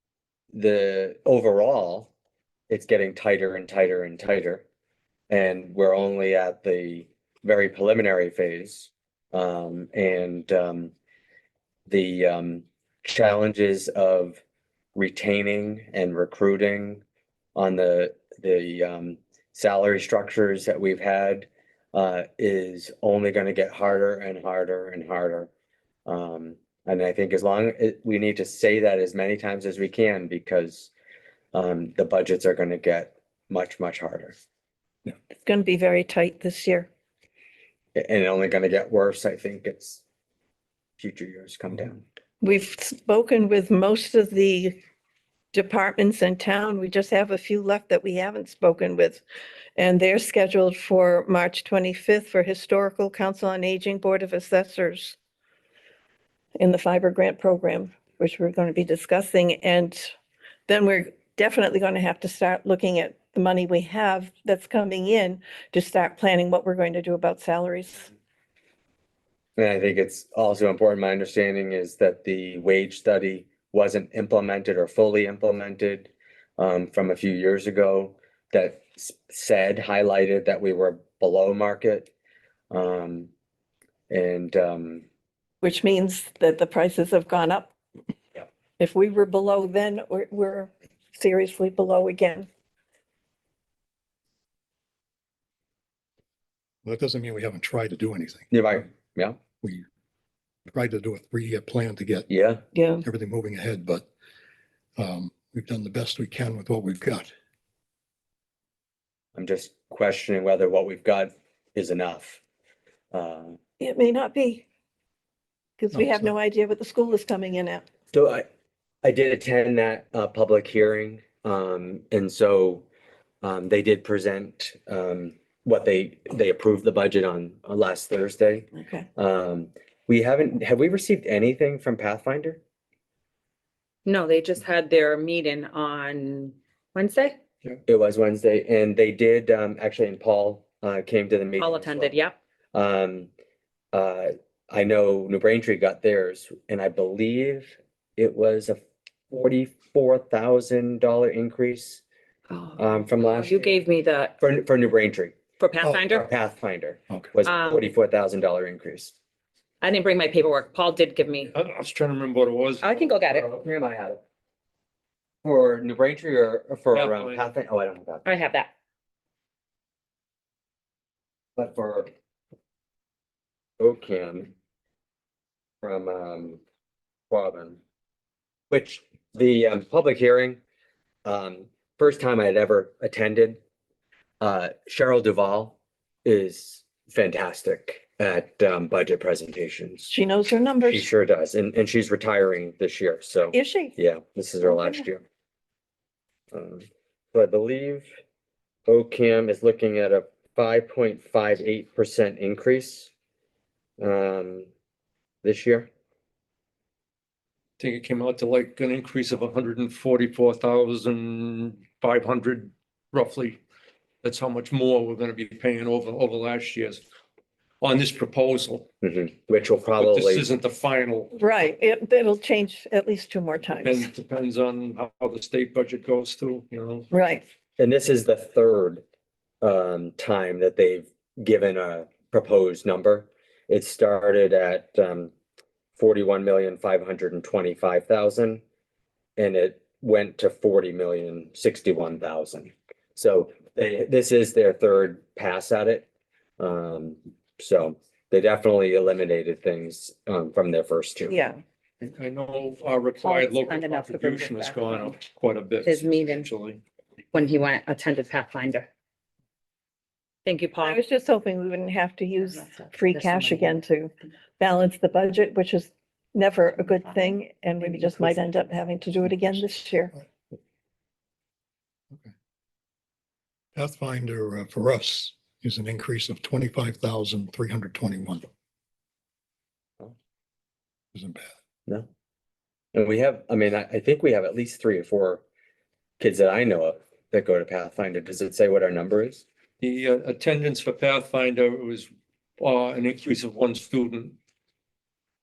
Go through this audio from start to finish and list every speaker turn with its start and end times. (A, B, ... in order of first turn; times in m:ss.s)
0:00.5-0:02.1 A
0:02.7-0:04.6 A
0:05.3-0:10.9 A
0:11.9-0:14.4 A
0:15.0-0:17.0 A
0:17.6-0:25.5 A
0:26.1-0:30.9 A
0:31.5-0:34.4 A
0:35.4-0:36.9 B
0:38.0-0:40.0 A
0:41.0-0:42.0 A
0:42.4-0:44.8 B
0:45.5-0:49.2 B
0:49.8-0:55.2 B
0:56.6-1:00.1 B
1:00.7-1:08.1 B
1:09.6-1:22.1 A
1:22.7-1:23.3 A
1:24.1-1:25.0 A
1:25.6-1:27.7 B
1:28.8-1:32.5 B
1:36.8-1:38.5 C
1:38.5-1:39.4 A
1:39.6-1:39.9 C
1:40.7-1:42.3 C
1:42.3-1:42.6 A
1:42.8-1:43.0 B
1:43.0-1:44.1 C
1:45.0-1:47.3 C
1:49.4-1:52.4 A
1:53.1-1:53.6 A
1:53.8-1:54.6 B
1:55.8-1:57.8 B
1:55.9-1:56.3 C
1:58.1-1:58.5 A
1:59.0-2:02.9 A
2:03.4-2:12.6 A
2:08.8-2:09.1 B
2:14.0-2:17.4 D
2:17.9-2:22.2 A
2:21.6-2:22.4 D
2:22.7-2:23.3 A
2:23.9-2:32.0 A
2:32.5-2:34.4 D
2:32.8-2:33.8 A
2:34.4-2:39.2 A
2:35.6-2:36.3 D
2:37.4-2:37.8 D
2:39.8-2:41.5 D
2:41.5-2:42.9 E
2:42.8-2:43.5 D
2:43.3-2:44.2 A
2:45.4-2:48.3 A
2:46.9-2:47.4 E
2:48.2-2:48.7 D
2:51.6-2:52.1 A
2:53.8-2:54.5 A
2:55.8-2:56.6 A
2:57.3-2:57.8 A
2:58.7-3:00.6 A
3:01.2-3:03.6 A
3:04.4-3:10.1 A
3:10.1-3:11.1 B
3:10.8-3:15.2 A
3:13.5-3:14.0 B
3:14.6-3:15.0 B
3:16.5-3:18.1 A
3:18.9-3:23.1 A
3:24.0-3:24.7 A
3:25.4-3:25.9 A
3:27.8-3:33.6 E
3:34.2-3:37.0 E
3:37.8-3:38.9 E
3:39.0-3:40.5 A
3:40.0-3:41.3 E
3:41.3-3:44.0 B
3:43.8-3:47.1 E
3:47.1-3:47.4 B
3:47.8-3:49.0 A
3:49.6-3:55.3 A
3:56.0-3:58.6 A
3:59.4-4:06.1 A
4:06.6-4:11.4 A
4:11.3-4:11.6 B
4:12.0-4:16.8 E
4:13.2-4:15.2 D
4:15.8-4:16.5 D
4:17.3-4:18.9 D
4:20.4-4:21.0 D
4:20.8-4:30.1 B
4:22.4-4:23.8 D
4:27.1-4:28.4 D
4:33.8-4:38.5 C
4:41.1-4:41.5 C
4:42.9-4:45.4 A
4:46.2-4:49.4 A
4:49.8-4:54.4 E